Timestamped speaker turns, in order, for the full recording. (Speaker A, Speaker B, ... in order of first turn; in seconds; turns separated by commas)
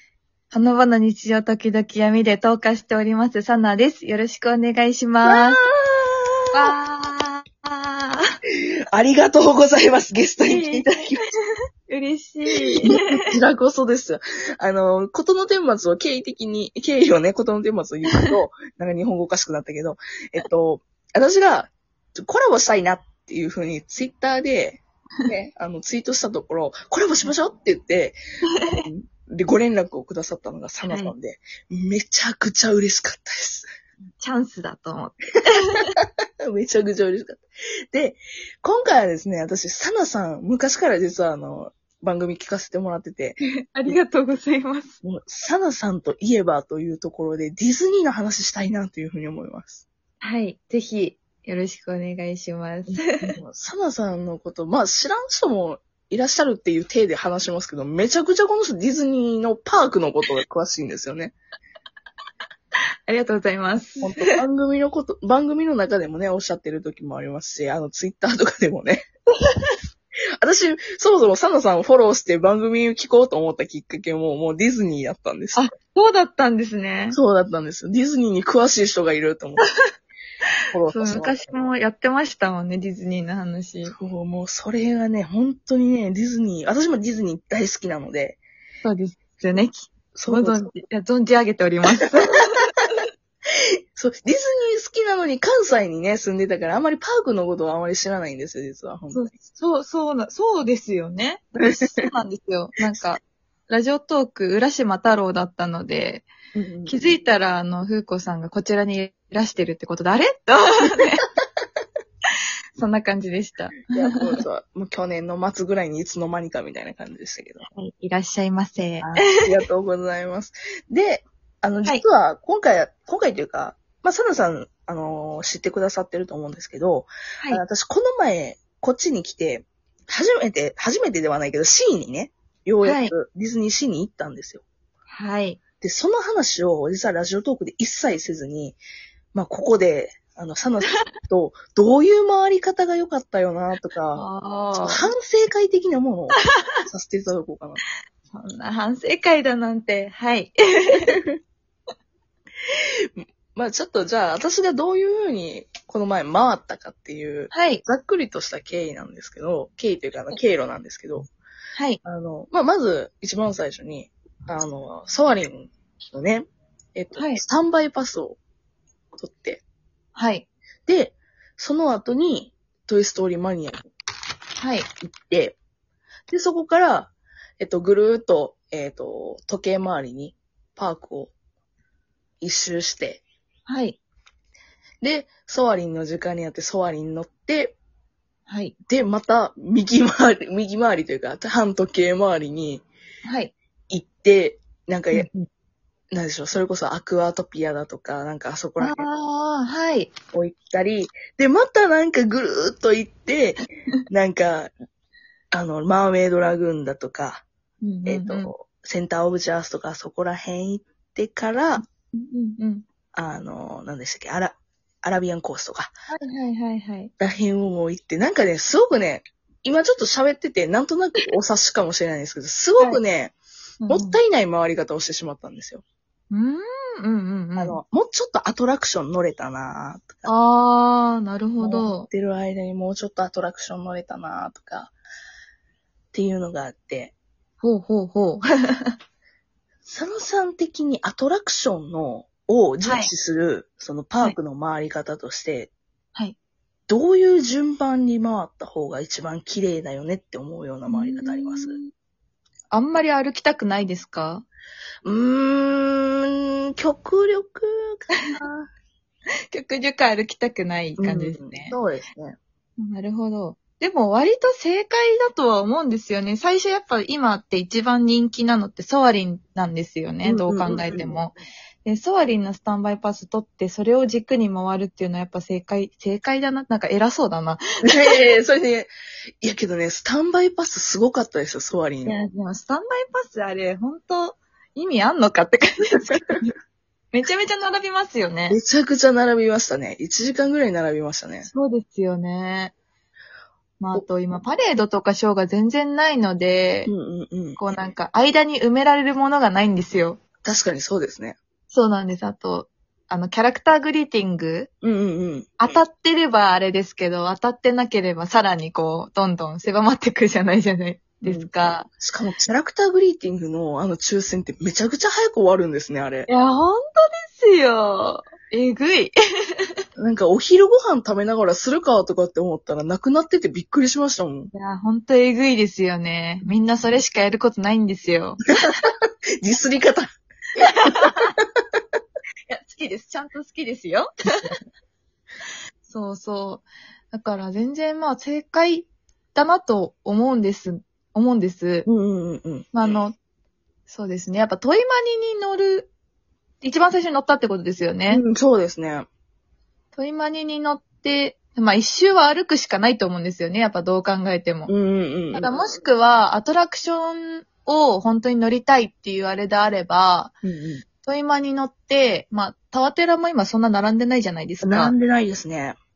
Speaker A: 0.5-5.6, Speaker B: 5.2-6.8, Speaker A: 6.5-8.2, Speaker B: 8.9-11.2, Speaker A: 10.4-11.0, Speaker A: 11.9-13.3, Speaker B: 12.8-28.2, Speaker B: 28.8-33.7, Speaker A: 30.9-31.1, Speaker A: 34.2-35.9, Speaker B: 36.4-44.0, Speaker A: 43.7-45.0, Speaker B: 45.0-49.8, Speaker A: 50.2-53.4, Speaker B: 52.9-61.3, Speaker A: 63.1-64.4, Speaker B: 64.0-69.0, Speaker A: 69.4-69.7, Speaker B: 70.4-75.7, Speaker A: 75.5-77.2, Speaker B: 77.1-79.6, Speaker B: 80.7-81.7, Speaker A: 80.8-83.9, Speaker B: 83.8-88.4, Speaker A: 88.8-92.6, Speaker B: 90.1-90.7, Speaker B: 93.9-99.3, Speaker A: 99.1-106.3, Speaker B: 101.6-101.9, Speaker B: 106.5-107.0, Speaker A: 106.8-111.2, Speaker A: 112.8-114.1, Speaker B: 113.9-117.7, Speaker A: 117.7-119.4, Speaker B: 119.0-134.6, Speaker A: 132.8-133.1, Speaker A: 135.1-135.6, Speaker B: 135.8-138.8, Speaker B: 139.3-144.2, Speaker A: 144.1-145.1, Speaker B: 144.8-147.8, Speaker A: 146.3-146.6, Speaker A: 148.3-151.2, Speaker B: 152.7-161.3, Speaker A: 157.5-157.8, Speaker A: 161.7-162.0, Speaker B: 162.0-168.4, Speaker A: 167.1-167.4, Speaker B: 169.2-169.6, Speaker A: 170.1-170.4, Speaker B: 170.8-173.9, Speaker A: 174.6-174.9, Speaker B: 175.1-175.6, Speaker B: 176.3-181.3, Speaker B: 182.4-183.2, Speaker A: 183.7-184.0, Speaker B: 185.0-187.8, Speaker A: 188.5-188.7, Speaker B: 188.9-192.8, Speaker A: 193.2-193.5, Speaker B: 193.9-195.3, Speaker A: 195.1-195.4, Speaker B: 196.1-199.0, Speaker A: 198.8-200.1, Speaker B: 200.3-204.7, Speaker B: 205.5-207.4, Speaker A: 207.8-208.5, Speaker B: 208.1-211.8, Speaker A: 211.8-212.8, Speaker B: 213.1-215.9, Speaker A: 216.1-217.1, Speaker B: 217.2-223.3, Speaker A: 223.8-224.2, Speaker B: 223.9-225.8, Speaker A: 226.3-227.8, Speaker B: 227.6-230.3, Speaker A: 230.2-232.1, Speaker B: 231.6-234.9, Speaker B: 236.1-237.1, Speaker A: 237.6-238.9, Speaker B: 239.8-245.7, Speaker A: 242.8-243.1, Speaker B: 246.9-251.8, Speaker A: 250.9-251.9, Speaker A: 252.7-254.4, Speaker B: 255.0-258.7, Speaker A: 259.5-261.8, Speaker B: 261.0-262.4, Speaker A: 262.8-278.2, Speaker B: 270.2-271.1, Speaker B: 277.8-278.9, Speaker B: 279.4-282.2, Speaker A: 282.0-286.5, Speaker A: 287.1-288.6, Speaker B: 288.5-291.5, Speaker A: 291.5-292.7, Speaker A: 293.8-296.9, Speaker B: 296.9-297.6, Speaker A: 297.6-300.2, Speaker B: 300.4-301.4, Speaker A: 301.7-304.7, Speaker B: 304.8-305.6, Speaker A: 305.6-311.9, Speaker B: 311.2-316.3, Speaker A: 316.3-319.7, Speaker B: 320.0-324.5, Speaker A: 324.5-328.4, Speaker B: 328.6-331.1, Speaker A: 330.6-331.3, Speaker A: 332.5-334.5, Speaker A: 335.9-341.9, Speaker B: 341.9-343.0, Speaker A: 342.7-343.1, Speaker A: 343.9-345.9, Speaker A: 346.6-348.2, Speaker B: 348.1-349.1, Speaker A: 349.9-354.7, Speaker B: 354.7-355.5, Speaker A: 355.3-360.3, Speaker B: 360.4-360.8, Speaker A: 361.1-364.9, Speaker B: 364.6-365.8